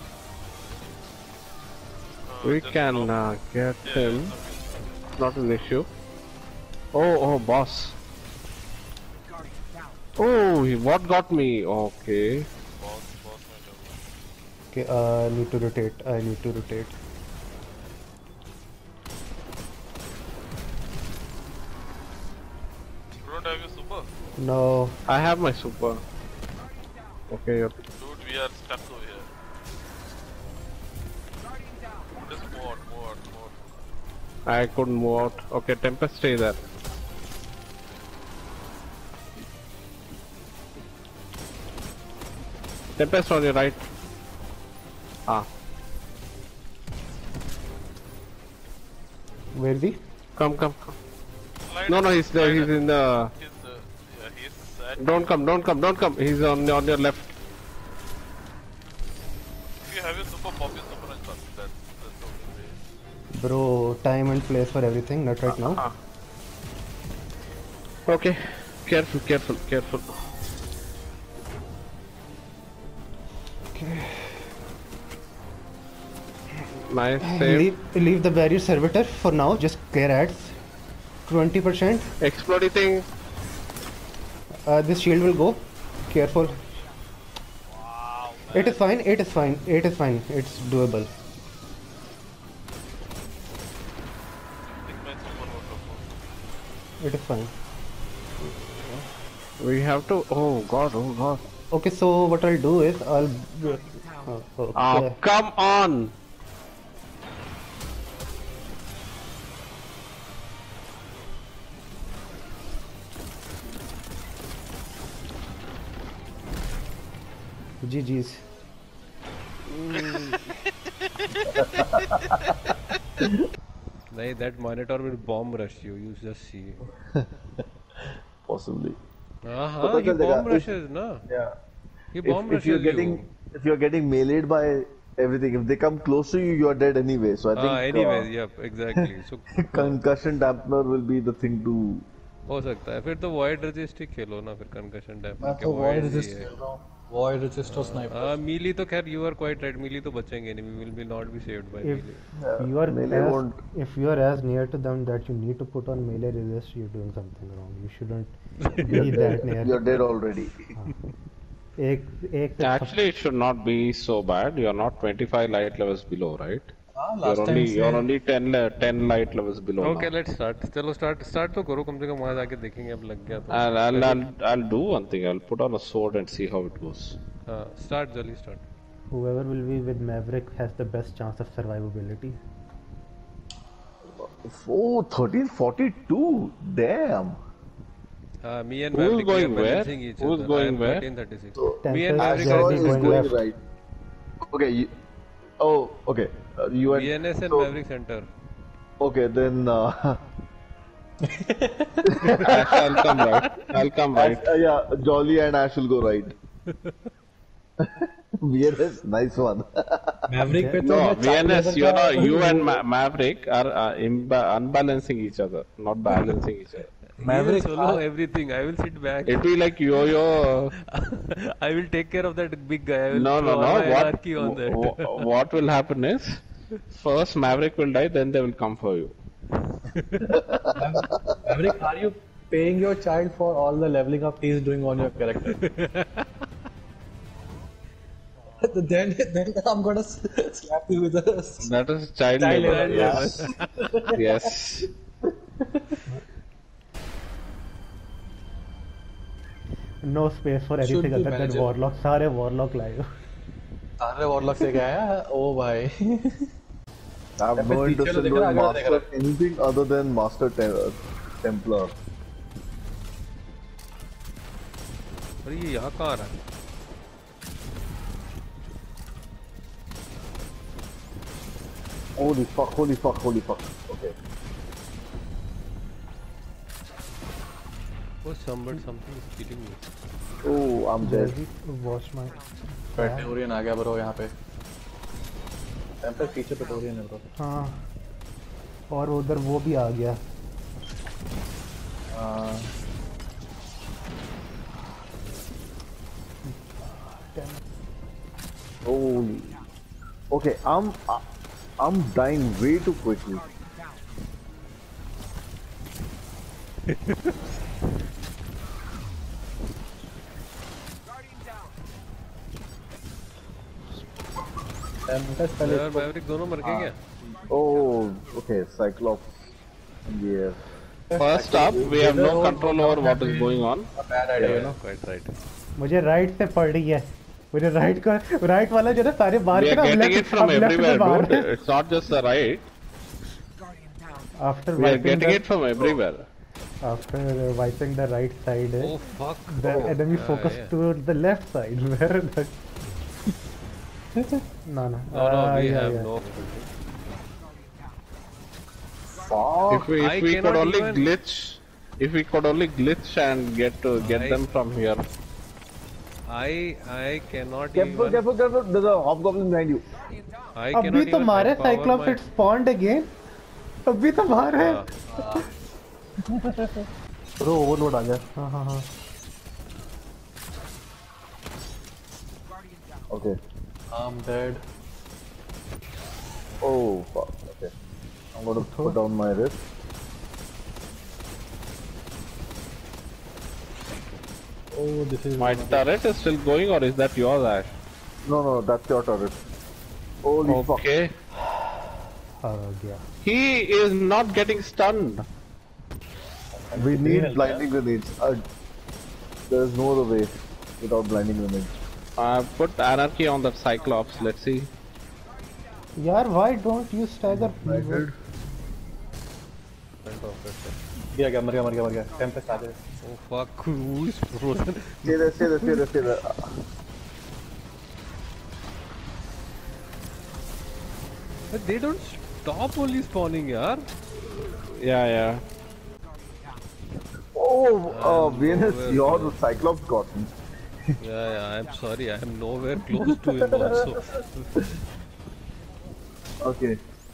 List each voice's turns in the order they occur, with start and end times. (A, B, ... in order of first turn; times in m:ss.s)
0:02.3-0:03.1 A
0:02.4-0:04.3 B
0:03.8-0:05.1 A
0:05.2-0:05.9 B
0:06.9-0:08.0 B
0:10.2-0:12.5 B
0:12.7-0:14.0 A
0:14.7-0:17.0 C
0:23.2-0:24.1 A
0:24.4-0:25.0 C
0:25.1-0:26.0 B
0:27.3-0:27.8 B
0:28.0-0:29.3 A
0:32.1-0:33.6 A
0:34.5-0:36.6 B
0:43.0-0:43.8 B
0:49.6-0:50.0 C
0:50.4-0:50.9 B
0:51.7-0:52.7 A
0:51.9-0:53.3 B
0:53.4-0:55.5 A
0:55.0-0:57.3 B
0:59.8-1:02.8 A
1:03.4-1:05.8 C
1:05.5-1:05.9 B
1:08.1-1:10.1 B
1:13.7-1:14.4 C
1:16.9-1:17.7 B
1:17.2-1:20.6 C
1:21.3-1:22.1 C
1:22.2-1:23.1 B
1:24.7-1:26.6 C
1:27.7-1:28.8 A
1:28.5-1:31.1 C
1:34.7-1:36.1 A
1:37.0-1:37.5 C
1:39.6-1:41.4 B
1:41.7-1:45.2 C
1:44.8-1:46.1 B
1:57.8-1:58.4 C
1:59.9-2:00.4 C
1:59.9-2:00.4 A
2:01.4-2:02.0 A
2:01.5-2:02.5 D
2:04.1-2:06.8 E
2:08.5-2:09.0 D
2:09.4-2:11.2 E
2:09.8-2:10.7 D
2:11.3-2:11.5 D
2:12.1-2:13.3 E
2:12.2-2:18.3 D
2:17.6-2:20.0 E
2:19.6-2:22.0 D
2:22.5-2:26.5 E
2:25.4-2:28.4 F
2:27.7-2:32.2 E
2:31.8-2:38.4 C
2:32.4-2:33.6 D
2:38.9-2:40.0 C
2:38.9-2:40.6 D
2:41.8-2:43.0 C
2:42.6-2:50.1 B
2:46.9-2:48.1 F
2:49.8-2:54.2 E
2:53.5-2:57.2 B
2:57.5-2:58.6 E
2:59.1-3:02.4 C
3:04.2-3:07.4 D
3:08.4-3:13.3 E
3:08.9-3:11.0 B
3:11.6-3:13.6 D
3:11.8-3:13.4 C
3:14.5-3:14.9 D
3:15.6-3:17.7 D
3:16.9-3:18.3 E
3:19.0-3:20.2 D
3:21.3-3:22.0 F
3:22.2-3:22.9 D
3:22.4-3:24.4 B
3:23.0-3:23.3 F
3:24.1-3:26.3 D
3:27.8-3:30.3 D
3:30.3-3:32.8 F
3:30.5-3:30.8 C
3:30.8-3:36.8 B
3:37.2-3:39.5 E
3:37.2-3:38.0 F
3:39.3-3:40.7 B
3:40.9-3:45.3 E
3:43.1-3:46.4 B
3:46.9-3:49.2 B
3:50.0-3:50.4 E
3:50.3-3:51.3 D
3:50.8-3:55.6 F
3:55.5-3:56.2 E
3:58.6-4:01.7 F
4:01.6-4:03.4 B
4:02.3-4:04.6 F
4:02.5-4:03.6 E
4:04.1-4:04.9 B
4:05.7-4:05.9 F
4:10.0-4:13.1 C
4:10.8-4:11.7 F
4:14.0-4:16.5 F
4:17.4-4:21.9 D
4:17.6-4:19.1 F
4:25.4-4:26.4 E
4:32.2-4:34.1 D
4:38.2-4:39.8 E
4:40.4-4:41.3 D
4:41.0-4:43.3 C
4:43.0-4:44.3 F
4:46.0-4:47.2 F
4:47.4-4:47.8 C
4:48.9-4:50.2 C
4:52.1-4:52.7 F
4:56.5-4:57.6 C
4:58.8-4:59.6 D
5:00.3-5:01.3 D
5:01.8-5:03.4 D
5:15.1-5:16.1 F
5:15.6-5:17.0 E
5:17.5-5:19.5 D
5:20.1-5:20.6 D
5:21.1-5:24.8 F
5:21.2-5:23.9 B
5:24.4-5:25.4 E
5:25.8-5:31.5 C
5:29.6-5:32.7 B
5:34.4-5:35.4 C
5:34.8-5:36.3 B
5:36.8-5:39.0 C
5:38.8-5:40.7 E
5:39.5-5:42.6 C
5:44.2-5:44.4 F
5:44.7-5:46.1 C
5:45.1-5:46.7 E
5:49.2-5:49.9 D
5:49.7-5:55.0 B
5:50.0-5:51.1 E
5:54.0-5:54.4 E
5:56.3-5:58.3 E
5:57.8-5:59.9 D
6:00.5-6:02.2 E
6:00.7-6:03.1 C
6:03.9-6:04.8 C
6:04.6-6:04.9 E
6:05.1-6:05.5 F
6:06.3-6:06.9 F
6:07.4-6:08.3 F
6:08.4-6:08.8 C
6:13.1-6:13.4 D
6:13.9-6:14.6 F
6:16.6-6:17.7 D
6:18.4-6:19.6 D
6:18.6-6:19.0 C
6:24.7-6:25.8 F
6:25.4-6:27.8 B
6:28.2-6:29.4 D
6:30.2-6:30.9 D
6:30.5-6:31.1 B
6:32.4-6:33.0 C
6:33.2-6:35.2 B
6:36.7-6:37.7 F
6:36.8-6:38.4 D
6:39.5-6:41.8 D
6:42.2-6:44.7 B
6:46.0-6:48.1 C
6:47.3-6:48.1 D
6:50.0-6:50.8 E
6:51.1-6:52.8 F
6:53.0-6:55.2 E
6:55.1-6:56.5 D
7:01.5-7:03.8 E
7:04.4-7:05.4 B
7:07.4-7:10.3 D
7:07.9-7:09.4 E
7:11.0-7:14.3 E
7:16.4-7:16.8 D